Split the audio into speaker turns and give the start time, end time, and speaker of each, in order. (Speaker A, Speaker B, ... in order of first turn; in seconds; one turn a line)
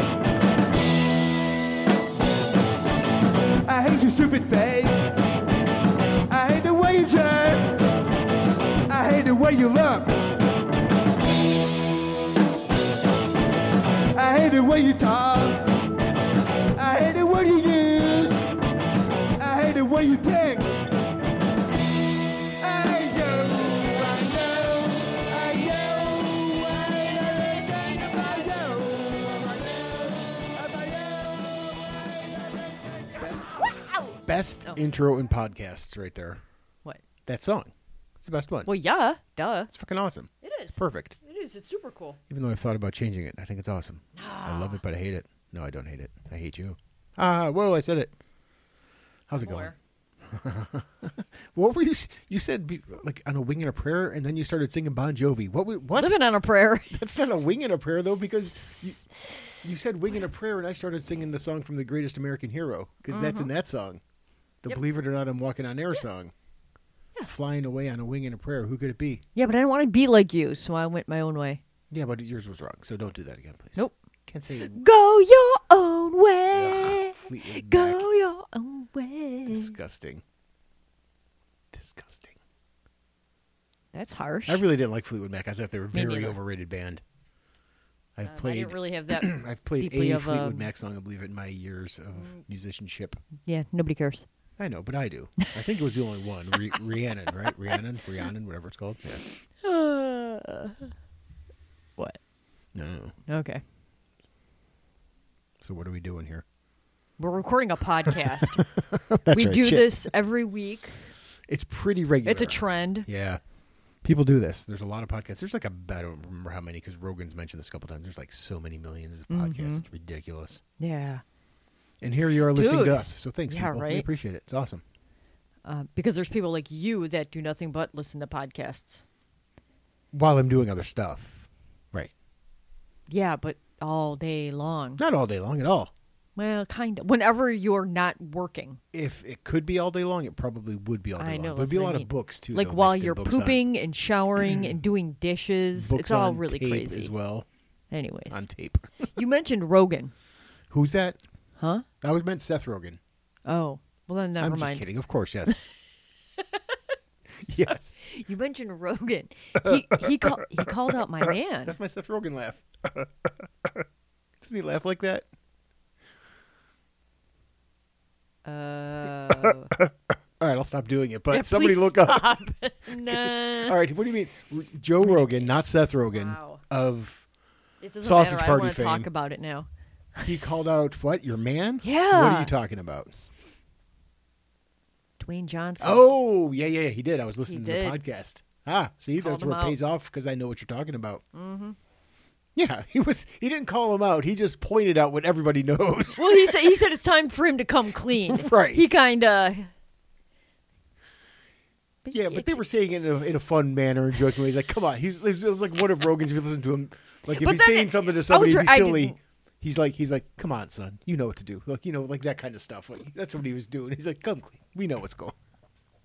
Speaker A: 3.7-5.2
Speaker A: 6.3-7.9
Speaker A: 8.9-10.2
Speaker A: 14.1-15.7
Speaker A: 16.8-18.5
Speaker A: 19.4-20.7
Speaker A: 22.4-33.6
Speaker B: 34.2-36.4
Speaker B: 37.2-38.7
Speaker C: 38.6-39.7
Speaker B: 39.7-41.2
Speaker C: 40.4-42.2
Speaker B: 42.3-48.1
Speaker C: 44.1-44.8
Speaker B: 49.3-49.7
Speaker C: 49.4-49.8
Speaker B: 50.2-56.2
Speaker C: 56.0-57.0
Speaker B: 56.9-59.0
Speaker C: 58.4-59.5
Speaker B: 59.6-64.0
Speaker C: 63.1-63.5
Speaker B: 64.6-66.3
Speaker B: 67.3-69.2
Speaker C: 69.3-71.6
Speaker B: 71.9-74.8
Speaker C: 74.6-79.7
Speaker B: 76.5-78.0
Speaker B: 79.5-80.2
Speaker B: 81.7-82.4
Speaker C: 83.9-84.6
Speaker B: 84.5-87.0
Speaker C: 85.9-86.4
Speaker B: 88.2-93.2
Speaker C: 88.2-90.7
Speaker C: 92.2-92.4
Speaker C: 93.4-94.2
Speaker B: 94.6-99.2
Speaker C: 99.6-100.9
Speaker B: 102.7-103.2
Speaker C: 103.3-103.6
Speaker B: 105.6-106.4
Speaker C: 107.2-108.6
Speaker B: 108.1-109.9
Speaker C: 109.3-111.0
Speaker B: 111.5-113.4
Speaker C: 112.2-113.1
Speaker B: 114.0-120.6
Speaker C: 119.3-119.8
Speaker C: 120.8-121.2
Speaker B: 122.0-124.8
Speaker C: 122.5-124.1
Speaker C: 125.6-129.0
Speaker B: 130.1-132.1
Speaker C: 133.1-135.0
Speaker B: 135.0-135.9
Speaker C: 136.4-138.8
Speaker B: 138.9-143.6
Speaker C: 141.2-147.1
Speaker B: 144.4-144.7
Speaker B: 145.7-147.4
Speaker C: 147.9-148.4
Speaker B: 148.3-149.1
Speaker C: 149.2-150.1
Speaker B: 150.7-151.2
Speaker C: 151.6-151.8
Speaker B: 152.0-153.0
Speaker C: 153.4-154.8
Speaker B: 154.4-155.7
Speaker C: 156.4-156.8
Speaker B: 157.4-157.9
Speaker C: 158.0-161.8
Speaker B: 159.6-160.7
Speaker B: 161.7-163.1
Speaker B: 164.4-165.3
Speaker C: 168.4-169.7
Speaker B: 170.4-172.3
Speaker C: 171.3-173.8
Speaker B: 172.9-177.2
Speaker C: 175.0-175.5
Speaker C: 176.1-176.6
Speaker C: 177.8-180.3
Speaker B: 178.0-179.1
Speaker B: 180.2-183.1
Speaker C: 181.8-182.5
Speaker C: 185.2-186.1
Speaker B: 185.8-191.2
Speaker C: 187.5-188.0
Speaker C: 189.2-189.8
Speaker C: 191.3-191.8
Speaker B: 192.6-196.8
Speaker C: 196.2-199.7
Speaker B: 198.3-198.9
Speaker C: 202.0-202.6
Speaker B: 202.1-215.3
Speaker C: 207.3-209.2